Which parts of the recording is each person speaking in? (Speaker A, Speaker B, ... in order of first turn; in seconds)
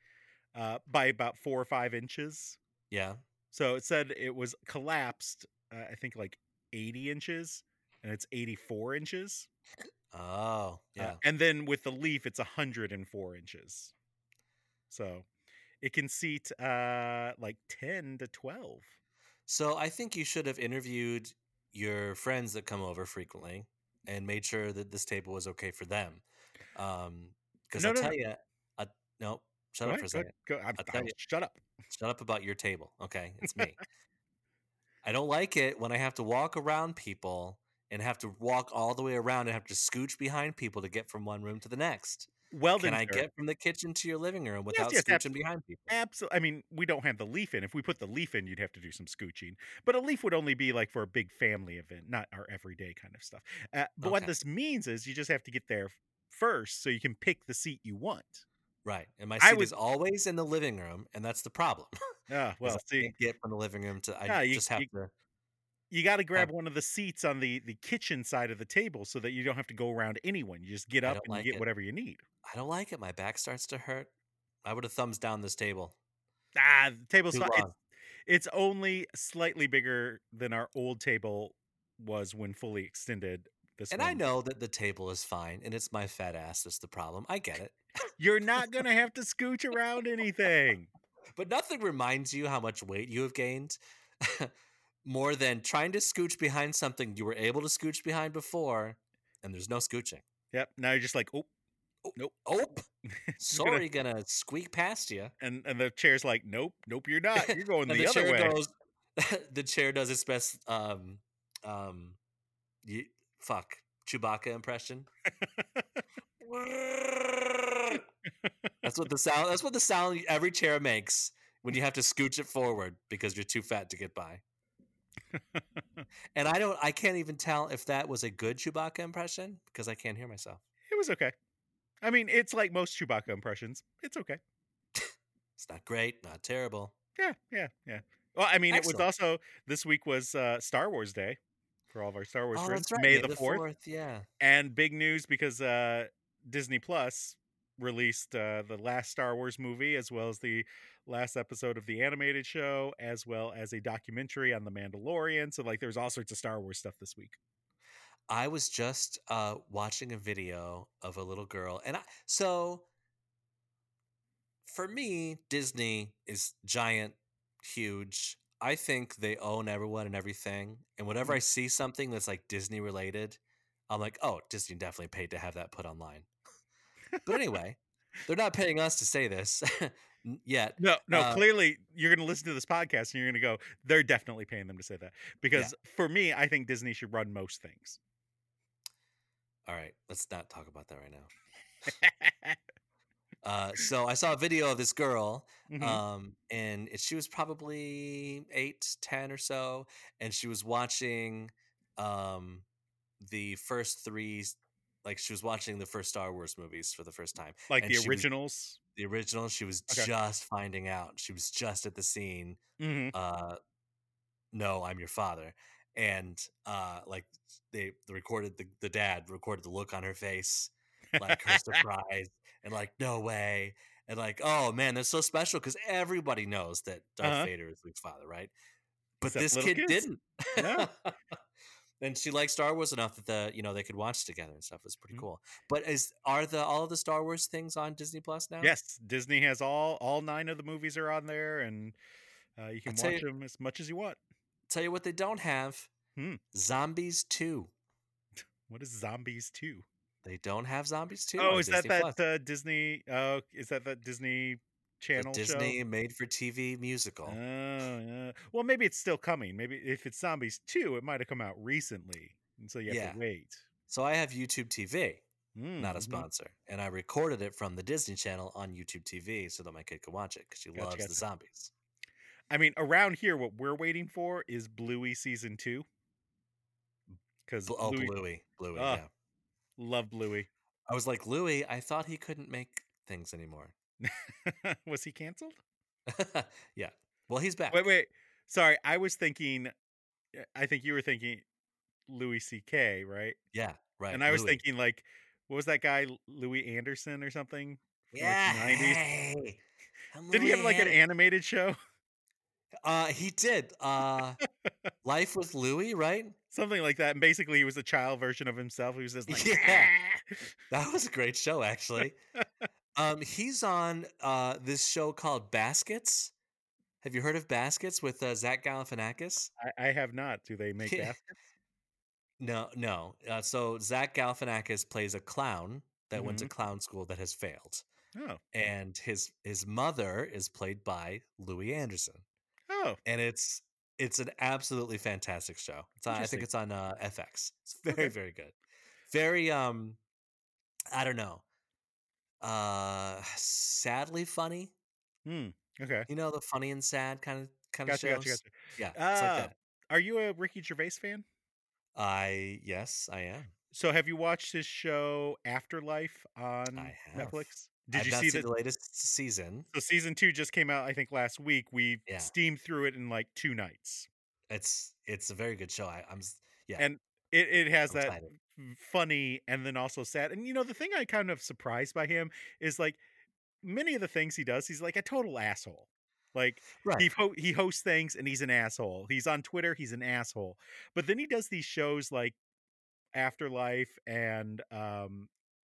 Speaker A: 0.5-2.6, 3.5-9.5, 11.0-13.9, 14.9-15.2, 15.8-18.9, 27.8-28.1, 29.8-31.6, 42.5-43.2, 44.7-45.3, 45.9-58.4, 59.4-59.7, 62.3-63.1, 64.3-64.9, 65.9-72.2, 76.5-77.7, 78.2-84.2, 88.2-90.9, 100.5-101.5, 103.3-103.8, 105.4-108.6, 130.9-131.3, 132.0-134.4, 137.2-141.4, 141.9-143.6, 144.4-157.4, 180.8-188.0, 191.9-192.6, 195.7-196.0, 207.7-208.8, 212.8-213.1, 221.2-221.8, 227.2-227.5, 229.3-230.1, 230.6-230.9, 238.6-242.0, 242.6-244.2, 248.7-249.8, 251.4-255.8, 257.2-263.6, 265.5-266.3, 270.7-271.2, 272.5-275.8, 277.4-278.1, 278.8-279.0, 279.8-280.5, 284.0-285.6, 287.7-289.7, 290.3-291.4, 292.1-293.4, 294.1-299.0, 300.3-301.8, 306.5-310.5, 319.6-321.3, 326.1-326.5, 328.1-328.4, 332.7-333.0, 336.1-336.5, 337.9-338.1, 345.2-346.1, 347.9-351.2, 353.7-358.5, 359.7-364.1, 366.8-373.0, 373.6-382.3, 383.1-385.3
Speaker B: 2.9-3.2, 10.1-11.2, 19.5-26.2, 26.7-31.1, 31.9-33.8, 35.0-45.9, 54.0-54.3, 58.8-61.9, 62.6-65.1, 71.0-71.6, 72.4-74.1, 74.6-76.0, 77.3-77.7, 83.9-87.8, 91.3-94.5, 95.0-100.2, 102.0-102.8, 103.4-105.3, 107.4-112.2, 112.8-115.1, 116.4-118.0, 118.8-124.4, 126.3-130.6, 134.9-136.9, 138.7-139.1, 142.5-144.3, 158.3-162.9, 164.7-176.3, 177.2-181.4, 189.7-191.3, 193.4-202.6, 203.2-208.3, 208.9-212.6, 213.1-213.6, 214.5-228.5, 229.2-231.1, 232.0-238.7, 242.8-243.2, 244.7-245.9, 246.5-247.7, 250.2-252.2, 255.1-257.4, 262.9-263.2, 263.9-265.2, 265.8-271.7, 277.6-279.1, 280.9-283.7, 286.1-287.8, 293.5-294.6, 298.1-301.0, 302.8-304.4, 305.0-306.4, 309.3-309.9, 310.7-312.2, 312.9-316.3, 317.0-319.5, 320.8-321.1, 322.4-327.8, 328.5-332.2, 333.0-338.5, 339.1-340.0, 340.9-341.4, 342.4-344.7, 346.1-349.5, 351.9-353.5, 356.7-359.7, 362.1-362.3, 364.5-366.9, 367.9-368.3, 376.8-377.1